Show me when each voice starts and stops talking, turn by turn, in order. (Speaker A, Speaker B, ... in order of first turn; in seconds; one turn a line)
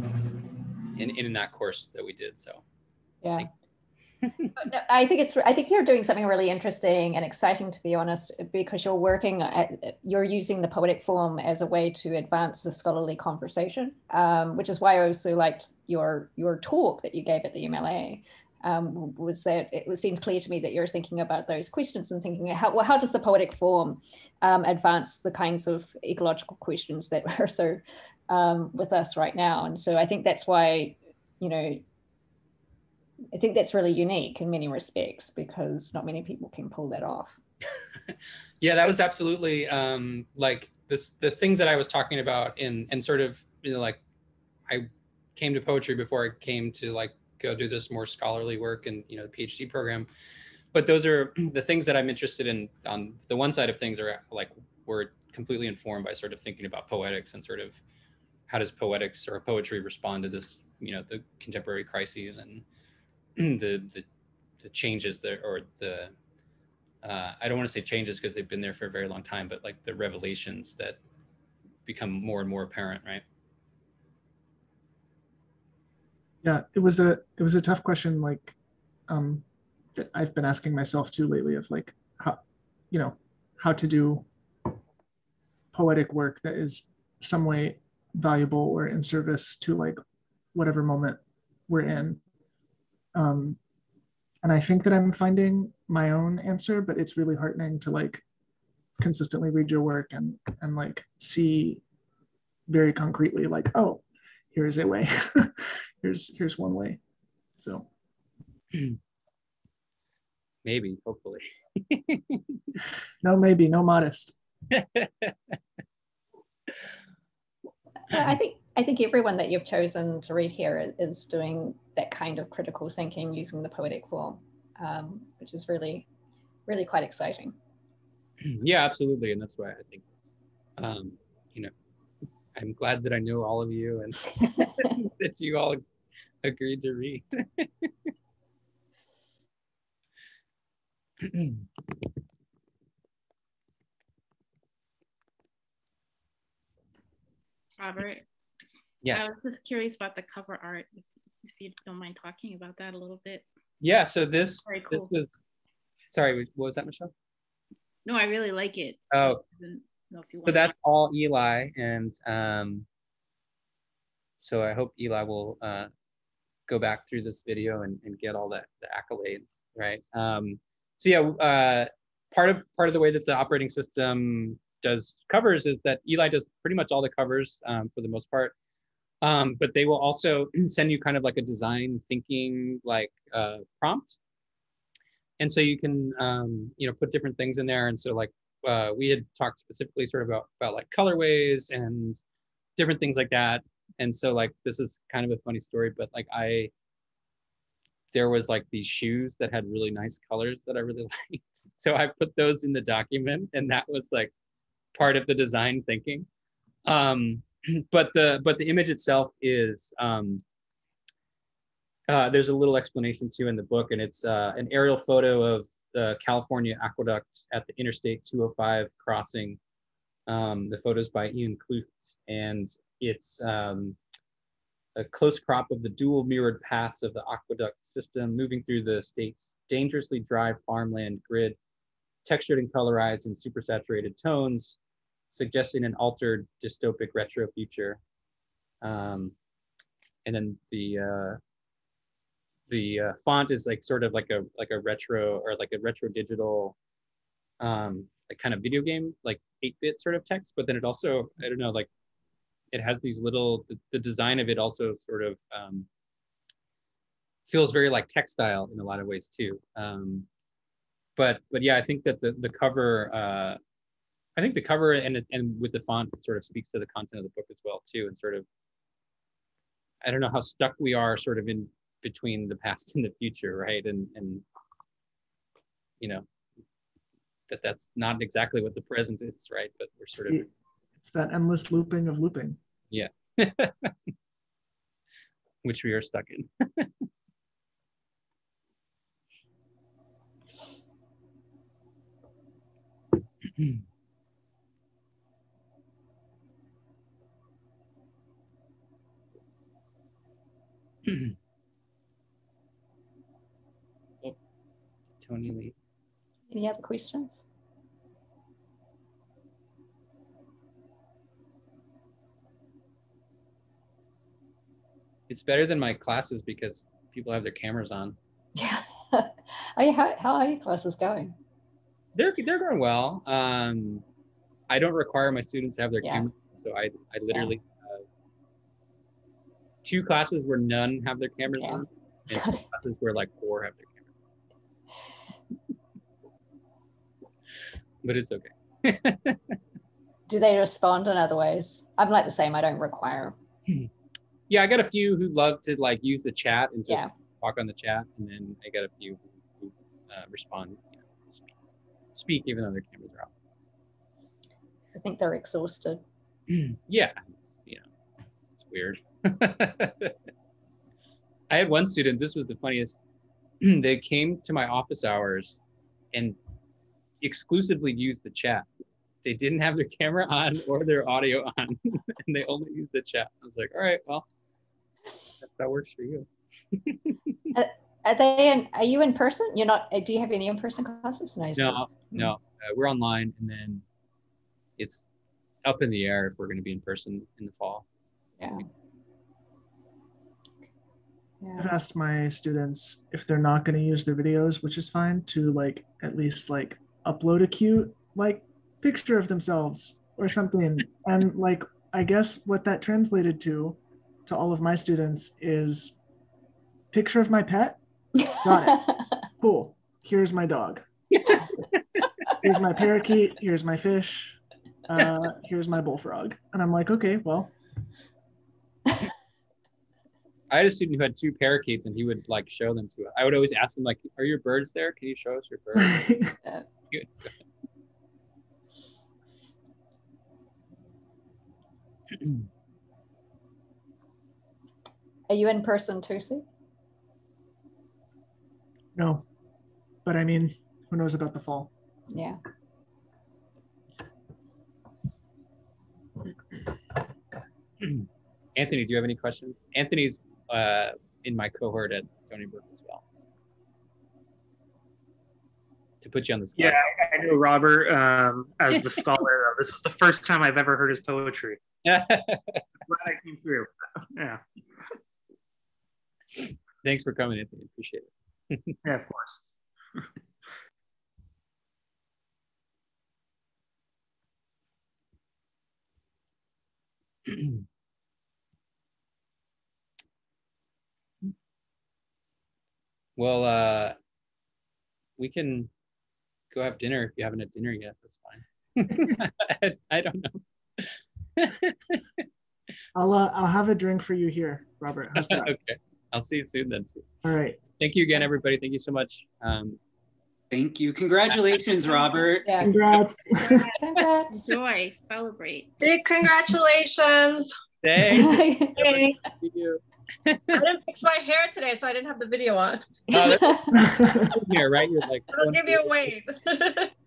Speaker A: 0.9-2.6
Speaker B: 3.2-3.5
Speaker B: 4.5-31.8
Speaker B: 33.3-37.4
Speaker A: 38.6-44.0
Speaker A: 44.7-50.1
Speaker A: 50.7-57.8
Speaker A: 58.5-62.6
Speaker A: 63.4-64.0
Speaker A: 64.6-66.1
Speaker A: 67.0-71.0
Speaker A: 71.8-73.2
Speaker C: 76.4-78.5
Speaker C: 79.1-79.4
Speaker C: 79.9-82.4
Speaker C: 82.9-84.2
Speaker C: 85.7-90.0
Speaker C: 90.5-92.2
Speaker C: 93.1-93.6
Speaker C: 94.4-98.2
Speaker C: 99.0-101.8
Speaker C: 102.7-107.0
Speaker C: 107.6-107.9
Speaker A: 110.6-112.7
Speaker C: 113.2-114.3
Speaker A: 114.7-115.3
Speaker B: 118.1-126.1
Speaker B: 126.7-127.5
Speaker A: 128.4-130.0
Speaker A: 130.8-131.7
Speaker A: 132.5-135.8
Speaker A: 136.4-138.1
Speaker A: 141.2-141.6
Speaker D: 147.8-148.2
Speaker A: 149.0-149.3
Speaker D: 149.1-153.4
Speaker A: 153.8-155.4
Speaker D: 154.7-155.1
Speaker A: 156.1-157.1
Speaker D: 158.0-160.7
Speaker A: 159.1-159.4
Speaker A: 160.4-162.8
Speaker A: 164.4-165.9
Speaker A: 166.7-178.5
Speaker A: 179.2-184.2
Speaker A: 185.4-192.2
Speaker A: 192.8-196.7
Speaker A: 198.1-204.3
Speaker A: 204.9-206.3
Speaker A: 206.8-210.4
Speaker A: 212.1-219.6
Speaker A: 220.2-224.0
Speaker A: 224.9-231.6
Speaker A: 232.2-234.8
Speaker A: 235.3-238.0
Speaker A: 238.8-239.3
Speaker A: 240.2-241.4
Speaker A: 242.7-246.8
Speaker A: 247.6-251.9
Speaker A: 252.7-255.9
Speaker A: 257.5-260.3
Speaker A: 261.1-263.6
Speaker A: 264.4-268.4
Speaker A: 270.0-274.4
Speaker A: 276.0-276.2
Speaker A: 277.5-280.4
Speaker C: 281.0-282.6
Speaker A: 282.9-283.9
Speaker A: 285.6-286.9
Speaker A: 301.0-301.3
Speaker A: 305.2-305.7
Speaker B: 306.5-307.4
Speaker A: 315.3-318.2
Speaker B: 318.6-321.3
Speaker A: 322.1-324.0
Speaker A: 324.7-328.0
Speaker B: 326.0-326.3
Speaker A: 329.8-334.1
Speaker B: 331.5-332.6
Speaker A: 338.0-339.6
Speaker B: 340.3-343.3
Speaker A: 344.5-351.5
Speaker A: 352.1-353.3
Speaker B: 354.9-356.0
Speaker A: 356.5-357.8
Speaker A: 358.6-360.1
Speaker A: 361.5-363.0
Speaker A: 363.6-365.6
Speaker A: 367.2-368.7
Speaker A: 369.2-374.2
Speaker A: 375.4-377.1
Speaker B: 377.5-382.0
Speaker A: 381.6-383.8
Speaker A: 384.8-385.1
Speaker A: 385.6-387.8
Speaker B: 388.4-388.6
Speaker B: 391.4-391.7
Speaker C: 391.6-406.0
Speaker C: 406.9-407.8
Speaker C: 408.3-408.9
Speaker B: 408.7-409.0
Speaker C: 409.4-410.8
Speaker C: 412.4-417.5
Speaker A: 420.5-426.0
Speaker C: 425.8-426.3
Speaker A: 426.9-427.3
Speaker A: 432.1-432.4
Speaker B: 435.3-436.4
Speaker C: 438.9-439.2
Speaker C: 440.0-441.7
Speaker B: 442.1-442.4
Speaker A: 447.8-453.0
Speaker A: 456.0-456.9
Speaker E: 456.6-461.6
Speaker A: 458.9-459.2
Speaker A: 461.8-462.6
Speaker E: 462.9-464.4
Speaker A: 466.4-468.8
Speaker E: 468.8-469.4
Speaker A: 477.3-477.6
Speaker A: 483.2-483.9
Speaker A: 485.2-485.7
Speaker A: 486.5-492.0
Speaker C: 492.9-495.5
Speaker A: 495.2-497.0
Speaker C: 497.2-497.6
Speaker A: 497.8-499.8
Speaker F: 500.5-502.5
Speaker B: 502.4-502.7
Speaker C: 502.6-503.7
Speaker B: 503.8-504.5
Speaker D: 504.3-505.7
Speaker G: 505.8-507.5
Speaker A: 507.8-510.6
Speaker B: 508.1-508.8
Speaker G: 508.8-509.2
Speaker G: 510.5-513.0
Speaker A: 513.1-516.1
Speaker B: 513.1-514.0
Speaker C: 513.7-514.3
Speaker G: 515.3-516.9